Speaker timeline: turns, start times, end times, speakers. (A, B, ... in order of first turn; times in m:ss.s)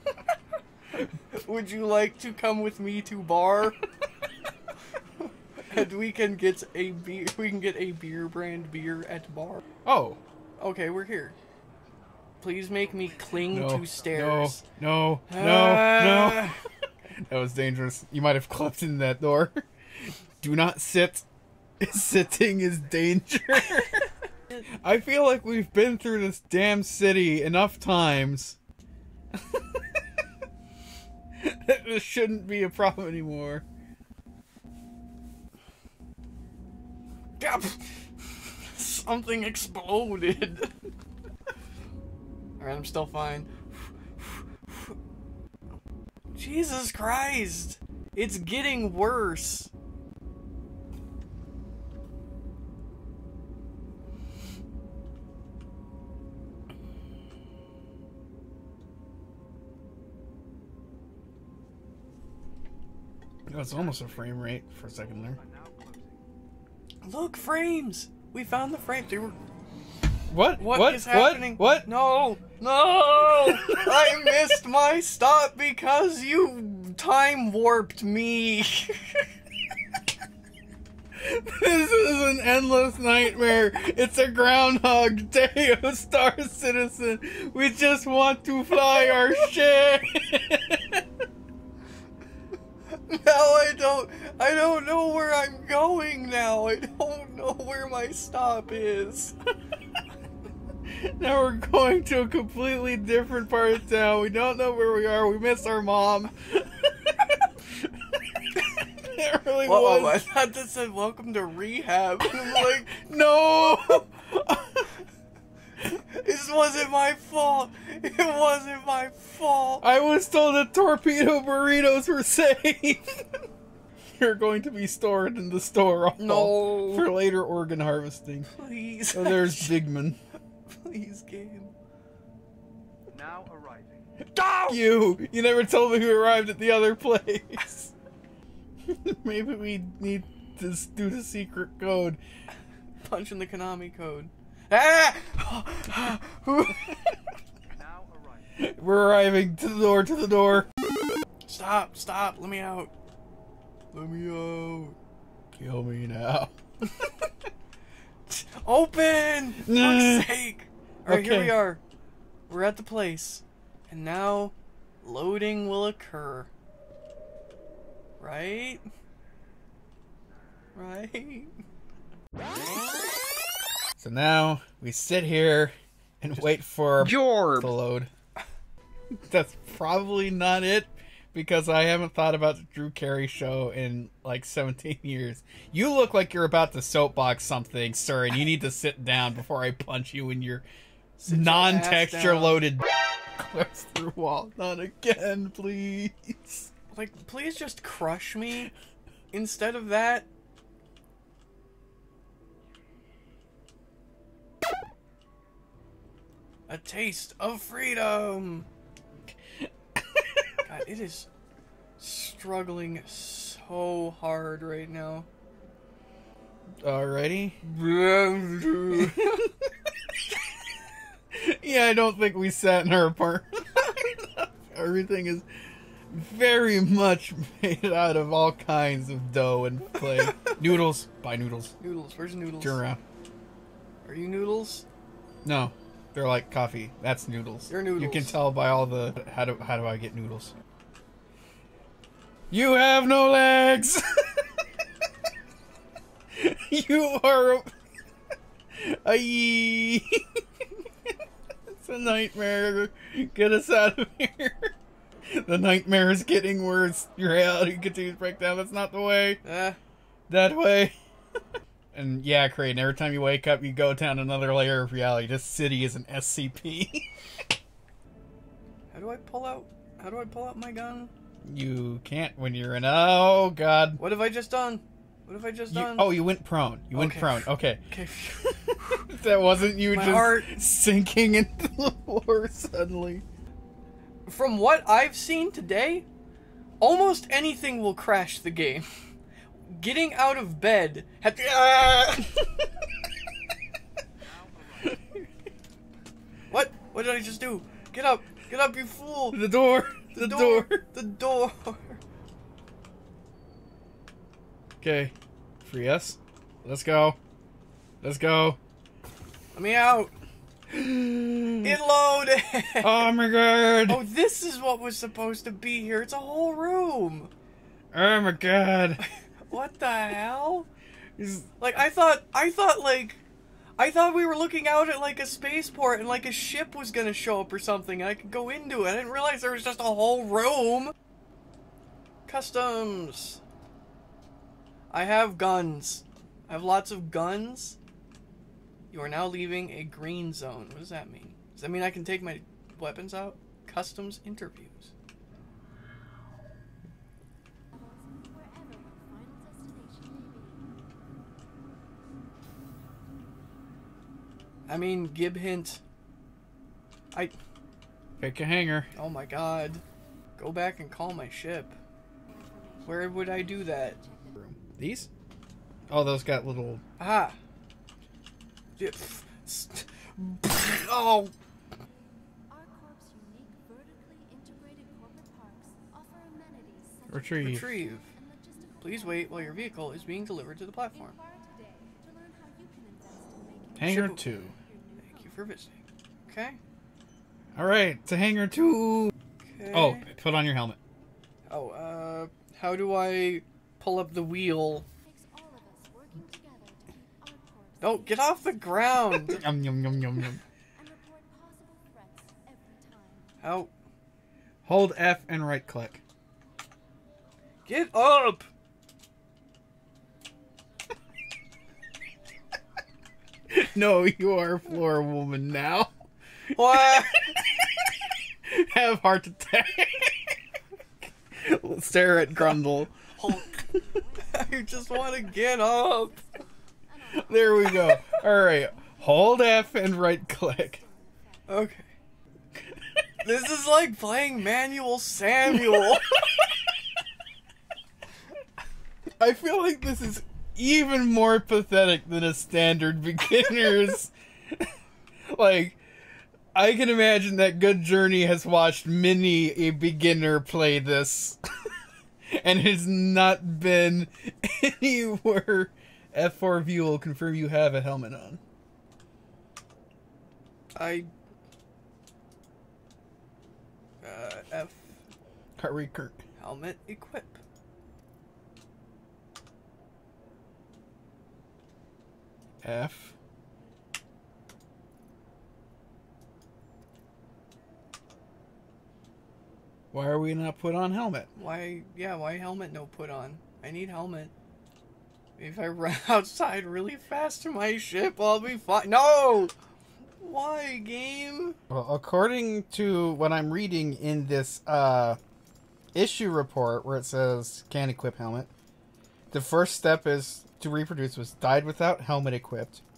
0:01.3-0:03.8 A
0:05.6-0:09.6 A
0:09.8-0:10.2 B
0:10.6-0:11.4 A
0:12.4-0:14.6 A
0:13.0-0:13.7 C
0:13.5-0:16.6 B
0:15.3-0:16.6 A
0:17.2-0:21.2 B
0:21.8-0:24.1 B
0:24.7-0:28.6 B
0:29.3-0:29.9 B
0:31.4-0:33.6 B
0:37.4-0:37.9 A
0:38.4-0:40.7 A
0:42.6-0:43.5 A
0:44.2-0:45.0 A
0:46.3-0:49.7 A
1:03.5-1:05.4 B
1:03.7-1:04.3 C
1:05.0-1:06.2 C
1:07.0-1:09.4 A
1:10.3-1:11.9 B
1:10.6-1:19.3 A
1:13.5-1:14.1 B
1:21.1-1:31.0 B
1:32.9-1:39.4 A
1:40.9-1:50.2 B
1:49.6-1:53.0 A
1:52.4-1:54.9 B
1:55.9-1:59.8 A
1:59.8-2:03.3 B
2:04.2-2:08.5 B
2:06.2-2:07.1 A
2:08.5-2:09.8 A
2:09.1-2:10.2 B
2:10.7-2:11.7 A
2:13.1-2:14.1 C
2:14.4-2:14.8 A
2:14.6-2:17.9 B
2:18.8-2:22.2 B
2:23.0-2:27.2 A
2:27.8-2:28.5 C
2:28.6-2:30.7 B
2:31.4-2:32.9 A
2:33.9-2:35.0 A
2:35.5-2:37.0 B
2:38.3-2:41.8 A
2:39.7-2:40.3 B
2:41.1-2:41.6 B
2:42.5-2:46.5 A
2:48.2-2:48.8 A
2:50.8-2:51.5 A
2:54.0-2:58.1 B
2:57.0-2:57.7 A
2:59.1-3:10.7 B
3:11.2-3:12.6 A
3:11.3-3:16.7 B
3:16.9-3:18.7 A
3:19.3-3:20.3 A
3:26.7-3:28.7 A
3:29.6-3:30.5 B
3:30.7-3:31.3 A
3:32.0-3:35.3 A
3:36.8-3:37.6 B
3:37.6-3:39.4 A
3:38.7-3:39.5 B
3:41.3-3:45.5 B
3:46.1-3:51.8 B
3:51.8-3:52.8 A
3:52.6-3:53.0 B
3:54.0-3:54.8 A
3:55.4-4:00.5 B
3:57.7-3:58.4 A
4:02.5-4:04.5 B
4:06.3-4:07.7 B
4:08.7-4:10.4 B
4:11.7-4:14.7 B
4:15.3-4:19.4 B
4:19.4-4:19.8 A
4:20.3-4:21.0 B
4:21.9-4:27.2 B
4:28.9-4:31.1 A
4:31.4-4:34.0 B
4:34.0-4:36.2 A
4:35.7-4:37.8 B
4:36.9-4:39.1 A
4:38.4-4:43.2 B
4:39.9-4:40.6 A
4:44.3-4:46.0 A
4:46.8-4:48.9 A
4:49.7-4:52.5 A
4:54.2-4:55.0 C
4:56.5-4:59.4 A
4:59.3-5:00.8 B
5:00.1-5:02.0 A
5:04.8-5:07.2 B
5:08.0-5:08.6 B
5:09.5-5:10.1 A
5:10.7-5:11.8 B
5:11.6-5:13.1 A
5:12.8-5:14.0 B
5:13.9-5:17.3 A
5:17.9-5:19.0 B
5:19.0-5:20.7 A
5:21.2-5:21.5 B
5:21.6-5:23.2 A
5:23.8-5:30.9 A
5:32.3-5:33.4 A
5:34.9-5:37.8 A
5:38.9-5:44.9 A
5:47.7-5:50.8 D
5:54.7-5:55.8 A
5:58.2-5:58.9 B
5:59.0-5:59.8 A
6:00.4-6:01.8 A
6:02.3-6:04.6 D
6:02.9-6:04.0 A
6:04.6-6:05.1 B
6:05.9-6:06.8 B
6:07.0-6:07.4 A
6:08.8-6:11.3 A
6:12.5-6:25.7 D
6:17.1-6:17.7 B
6:17.4-6:18.1 A
6:18.8-6:21.2 A
6:23.8-6:24.5 B
6:23.8-6:24.2 A
6:25.0-6:25.7 A
6:26.3-6:26.6 A
6:27.6-6:29.1 B
6:29.5-6:30.1 A
6:29.7-6:30.8 B
6:31.5-6:34.9 A
6:35.0-6:39.4 D
6:37.8-6:39.4 A
6:39.3-6:40.4 B
6:40.8-6:43.4 D
6:43.4-6:43.7 A
6:44.6-6:46.0 B
6:47.7-6:48.5 A
6:53.5-6:55.9 B
6:56.6-6:57.3 A
6:56.7-6:57.9 B
6:58.5-7:00.4 B
7:01.4-7:03.0 B
7:03.2-7:03.6 A
7:03.3-7:11.9 D
7:04.3-7:06.2 A
7:07.2-7:10.8 B
7:11.5-7:11.9 A
7:13.2-7:16.2 A
7:19.2-7:24.7 B
7:25.3-7:25.8 B
7:26.5-7:31.4 B
7:32.3-7:38.4 B
7:40.8-7:41.1 A
7:44.0-7:45.0 A
7:45.6-7:46.2 B
7:46.4-7:47.4 A
7:52.6-7:53.2 B
7:59.9-8:01.3 B
8:01.4-8:04.3 A
8:05.4-8:09.5 A
8:10.2-8:11.6 A
8:11.7-8:15.2 B
8:15.9-8:18.5 B
8:19.3-8:22.8 B